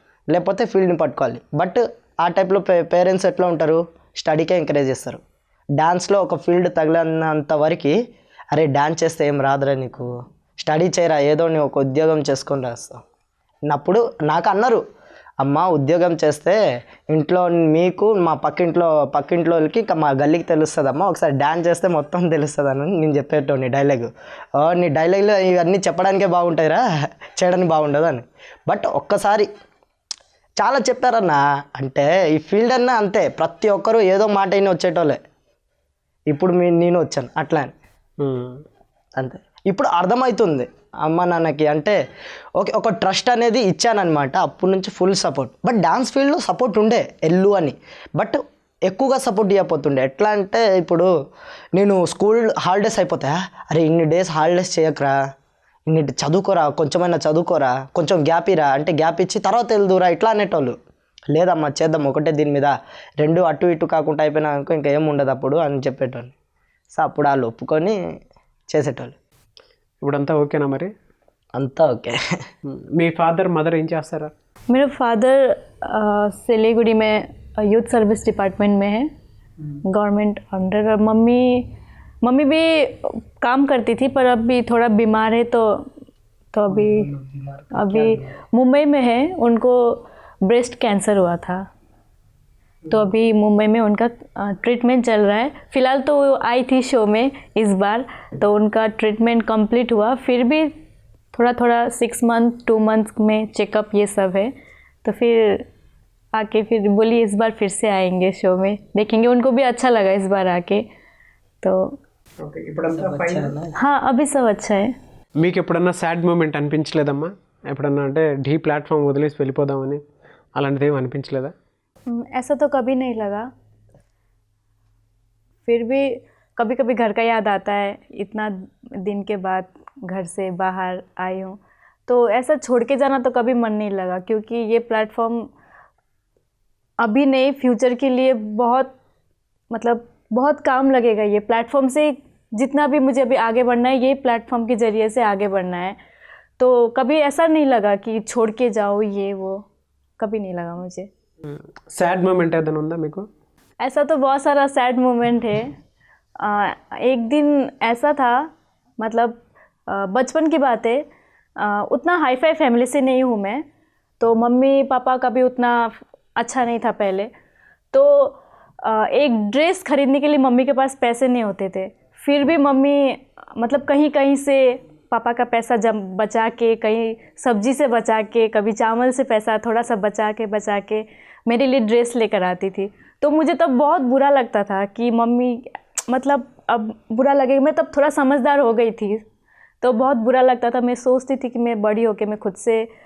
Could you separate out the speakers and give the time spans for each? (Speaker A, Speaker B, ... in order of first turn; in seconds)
Speaker A: 0.3-5.2, 5.8-8.0, 8.5-13.0, 13.7-14.8, 15.4-16.6, 17.1-26.8, 27.4-29.5, 30.6-35.2, 36.3-37.7, 39.2-42.0, 42.6-51.1, 51.8-55.2, 55.9-60.8, 61.3-66.3, 66.9-68.0, 68.7-69.1, 71.6-72.2, 112.9-113.7
Speaker B: 38.2-38.6, 70.0-70.9, 72.7-74.3, 112.4-113.6, 115.4-120.0, 120.6-121.5, 151.4-153.2
Speaker C: 74.7-79.1, 79.9-81.7, 82.2-85.8, 86.5-87.2, 87.7-91.6, 92.9-100.7, 101.3-104.5, 105.0-105.7, 106.3-110.8, 111.6-111.9, 113.8-114.9, 122.1-123.5, 125.7-135.5, 137.0-138.9, 139.7-146.0, 146.6-149.7, 150.2-151.1, 153.8-155.7, 156.4-163.6, 164.2-167.3, 167.9-189.2, 189.8-192.9